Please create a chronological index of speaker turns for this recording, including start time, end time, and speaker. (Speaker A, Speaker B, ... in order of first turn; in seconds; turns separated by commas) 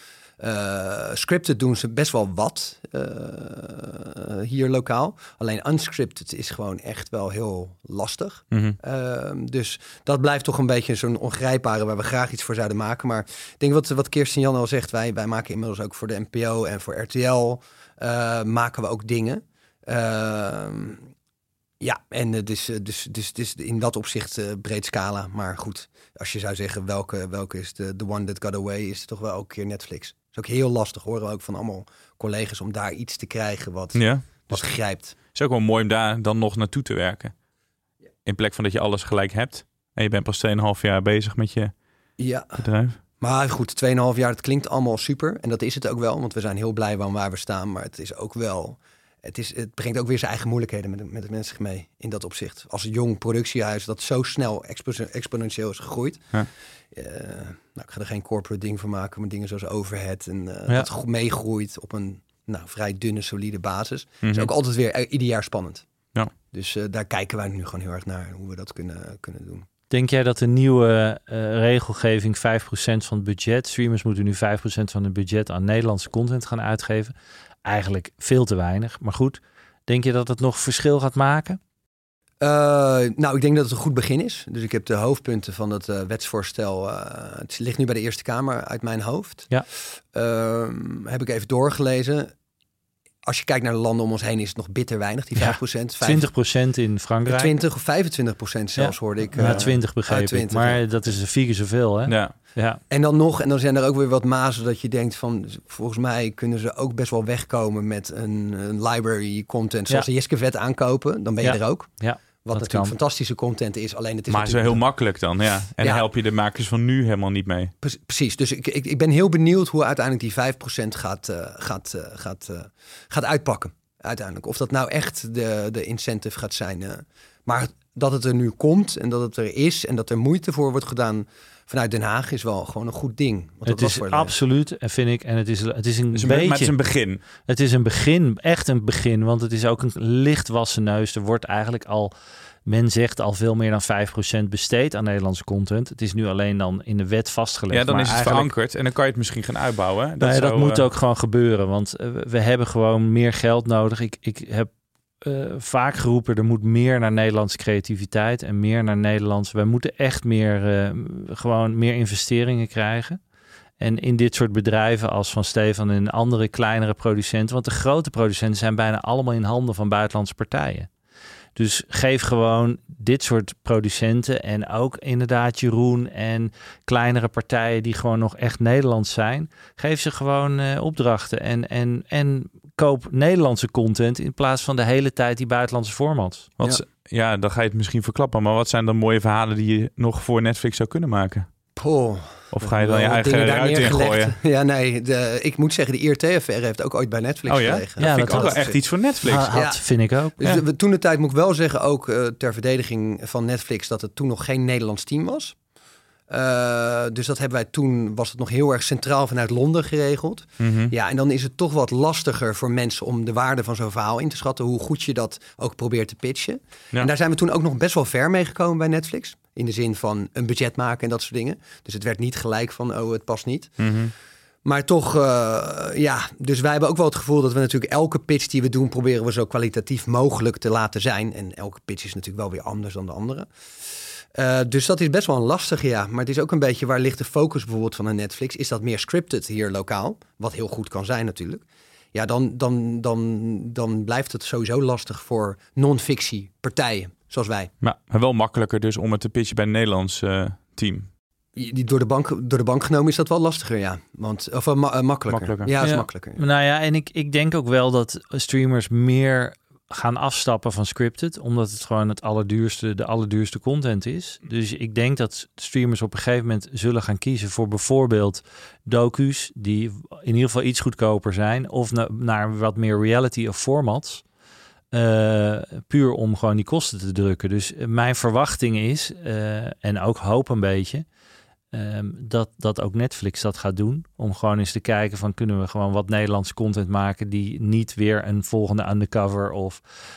Speaker A: 0.4-21.1, Speaker A: 21.8-35.1, Speaker B: 34.0-34.6, Speaker B: 35.3-37.3, Speaker B: 38.2-41.7, Speaker A: 42.2-42.6, Speaker B: 42.6-43.0, Speaker A: 43.2-56.4, Speaker A: 56.9-65.9, Speaker B: 64.2-64.5, Speaker A: 66.5-69.7, Speaker C: 69.9-77.1, Speaker C: 77.7-81.6, Speaker A: 82.4-92.3, Speaker A: 93.2-96.3, Speaker C: 95.4-97.5, Speaker A: 97.3-100.8, Speaker C: 98.8-102.8, Speaker B: 99.4-99.7, Speaker B: 102.1-102.3, Speaker A: 102.9-114.8, Speaker C: 111.4-112.9, Speaker B: 114.3-117.7, Speaker A: 115.8-116.1, Speaker A: 117.8-134.4, Speaker C: 133.7-136.8, Speaker B: 136.1-137.2, Speaker C: 137.4-142.1, Speaker C: 142.7-148.5, Speaker B: 147.7-150.8, Speaker C: 150.2-154.7, Speaker C: 155.2-163.2, Speaker C: 163.8-170.9, Speaker C: 171.6-186.5, Speaker B: 186.6-191.5, Speaker A: 191.8-198.8, Speaker B: 192.5-194.3, Speaker B: 197.5-199.5, Speaker C: 198.0-200.4, Speaker A: 199.5-199.8, Speaker A: 200.4-205.6, Speaker A: 206.3-223.9, Speaker B: 210.6-210.9, Speaker B: 223.8-224.1, Speaker A: 224.7-233.5, Speaker A: 234.3-247.7, Speaker B: 247.8-251.1, Speaker A: 251.6-256.4, Speaker B: 255.3-255.7, Speaker C: 255.8-274.2, Speaker C: 274.9-281.1, Speaker C: 281.7-289.8